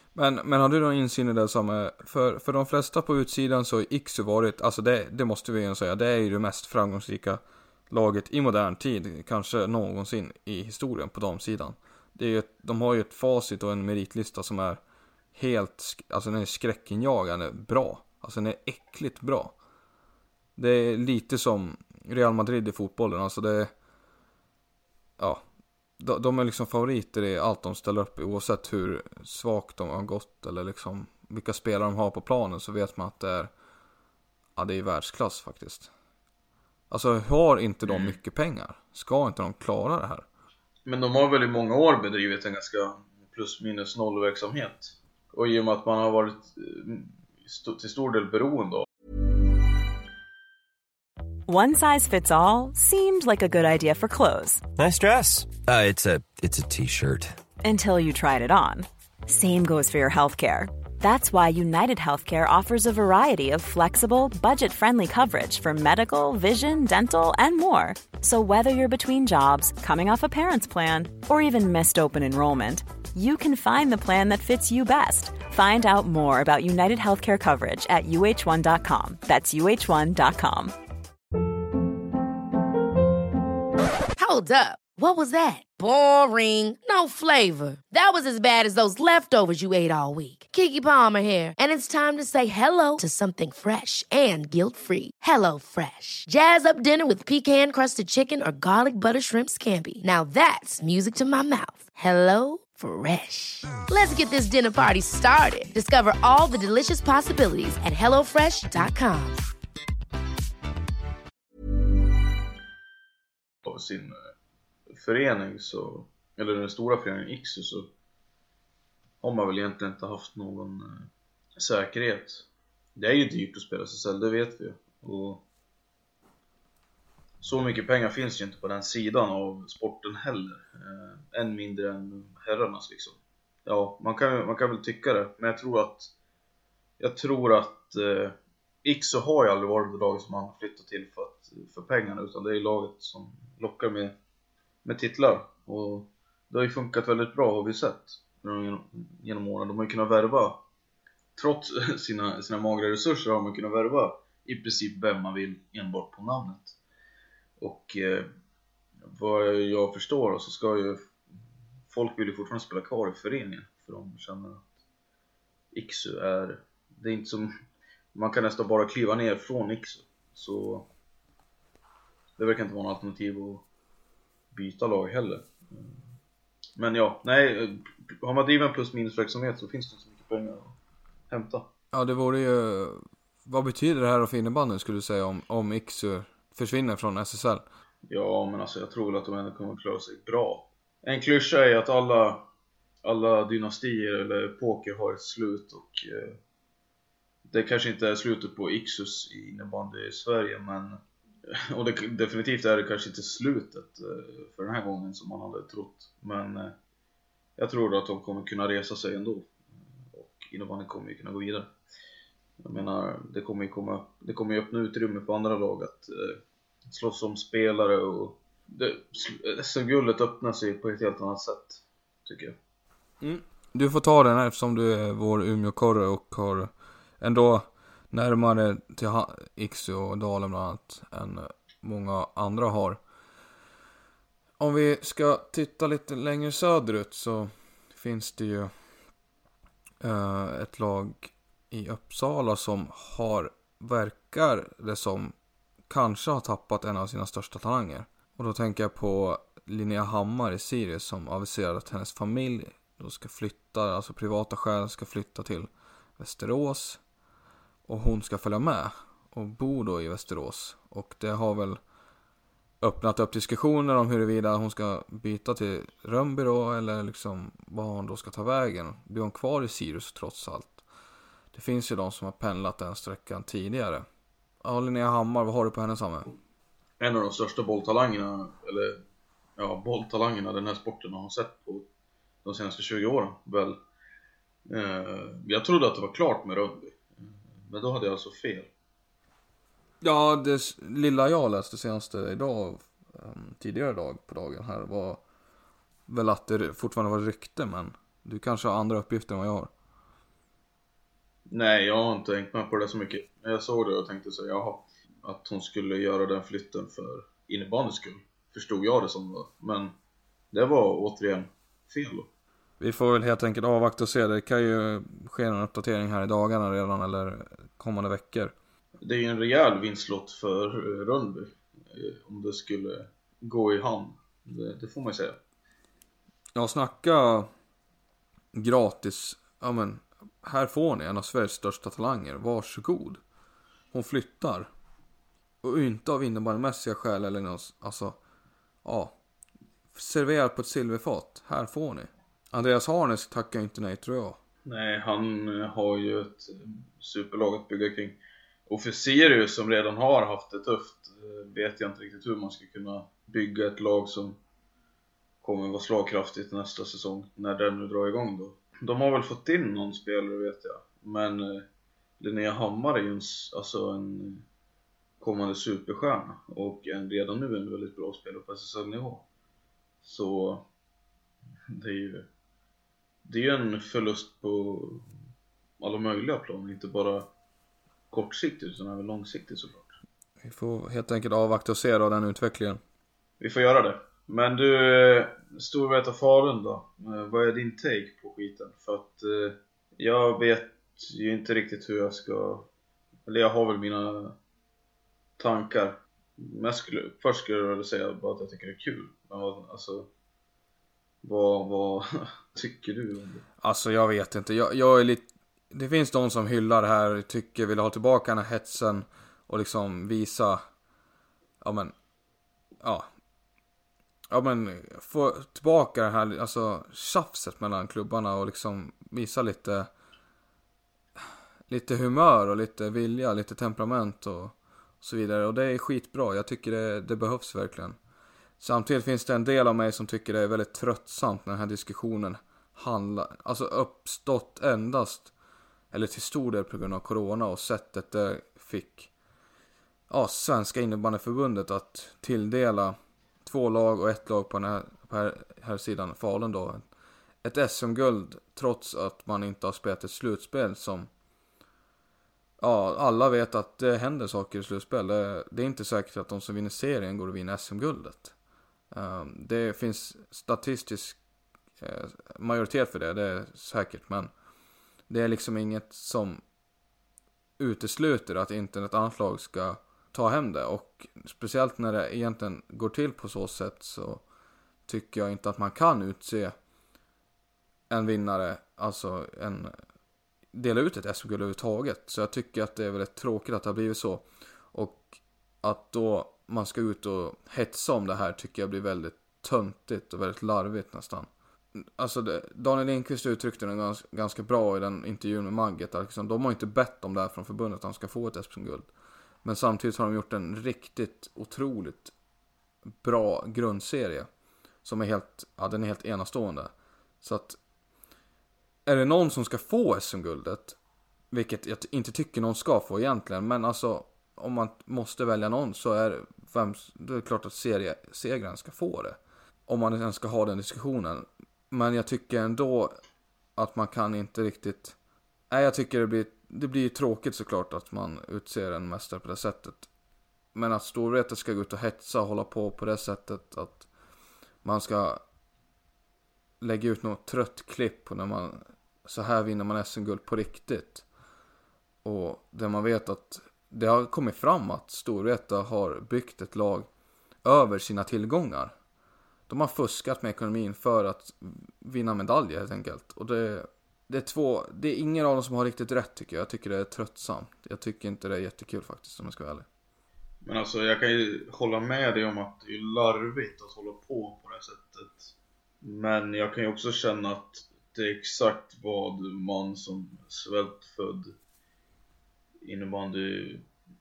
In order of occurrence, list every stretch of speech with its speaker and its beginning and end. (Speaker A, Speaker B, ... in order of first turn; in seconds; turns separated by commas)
Speaker A: 0.1-14.8, Speaker A: 15.3-19.5, Speaker A: 20.6-23.7, Speaker A: 26.0-33.5, Speaker A: 34.5-35.9, Speaker A: 36.9-40.2, Speaker B: 37.9-38.2, Speaker B: 40.9-48.8, Speaker C: 51.5-54.6, Speaker D: 54.8-57.4, Speaker C: 57.6-80.7, Speaker E: 84.2-109.4, Speaker B: 113.6-114.2, Speaker B: 114.9-117.9, Speaker B: 119.2-122.4, Speaker B: 123.0-125.4, Speaker B: 127.4-136.1, Speaker B: 137.0-144.1, Speaker B: 144.8-150.6, Speaker B: 151.3-156.8, Speaker B: 157.6-158.3, Speaker B: 159.1-161.1, Speaker B: 161.9-164.7, Speaker B: 165.7-167.5, Speaker B: 168.1-170.9, Speaker B: 172.4-173.6, Speaker B: 174.5-175.9, Speaker B: 176.8-180.8, Speaker B: 181.3-181.7, Speaker A: 181.9-187.6, Speaker B: 188.1-192.4, Speaker B: 193.0-196.4, Speaker B: 197.5-206.7, Speaker B: 207.6-209.5, Speaker B: 210.1-211.7, Speaker B: 212.6-222.6, Speaker A: 223.2-226.7, Speaker A: 227.2-233.0, Speaker A: 234.6-238.7, Speaker A: 240.0-245.3, Speaker A: 245.9-257.0, Speaker A: 257.9-261.8, Speaker A: 262.8-270.8, Speaker A: 271.5-274.1, Speaker A: 274.6-276.3, Speaker B: 277.0-279.0, Speaker B: 279.6-281.9, Speaker B: 282.4-283.8, Speaker B: 284.7-288.7, Speaker A: 290.0-295.2, Speaker A: 296.1-299.7, Speaker B: 301.5-309.9, Speaker B: 310.5-312.3, Speaker A: 312.8-318.5, Speaker B: 319.0-325.4, Speaker A: 326.5-327.5, Speaker A: 328.5-333.2, Speaker A: 333.9-334.7, Speaker A: 335.6-338.2, Speaker A: 338.8-339.1, Speaker A: 339.9-344.4, Speaker B: 344.6-354.4, Speaker B: 355.4-361.6, Speaker B: 362.2-364.4, Speaker B: 365.2-369.2, Speaker B: 370.0-370.6, Speaker B: 371.7-372.3, Speaker B: 373.2-375.0, Speaker B: 375.8-377.3, Speaker B: 378.1-379.9, Speaker A: 380.4-382.8, Speaker B: 383.4-392.7, Speaker B: 393.3-394.4, Speaker B: 395.4-400.1, Speaker B: 401.2-403.4, Speaker A: 403.6-410.6, Speaker A: 411.6-411.9, Speaker A: 412.8-413.1, Speaker A: 414.3-419.9, Speaker A: 421.7-428.0, Speaker A: 428.6-435.3, Speaker A: 435.9-439.1, Speaker A: 440.1-446.8, Speaker A: 447.4-451.1, Speaker A: 452.6-458.3, Speaker A: 458.9-461.2, Speaker A: 461.8-464.3, Speaker A: 465.1-466.4, Speaker A: 467.6-474.2, Speaker A: 474.9-476.5, Speaker A: 477.9-479.7, Speaker A: 480.5-498.9, Speaker A: 499.4-502.1, Speaker A: 503.0-504.3, Speaker A: 504.8-506.7, Speaker A: 507.2-507.6, Speaker A: 508.9-510.8, Speaker A: 511.3-522.9, Speaker A: 523.5-524.9, Speaker A: 525.5-529.9, Speaker A: 530.5-533.9, Speaker A: 534.6-535.2, Speaker A: 536.6-541.0, Speaker A: 542.0-546.9, Speaker A: 547.4-548.7, Speaker A: 549.5-559.6, Speaker B: 560.4-571.3, Speaker B: 572.6-573.6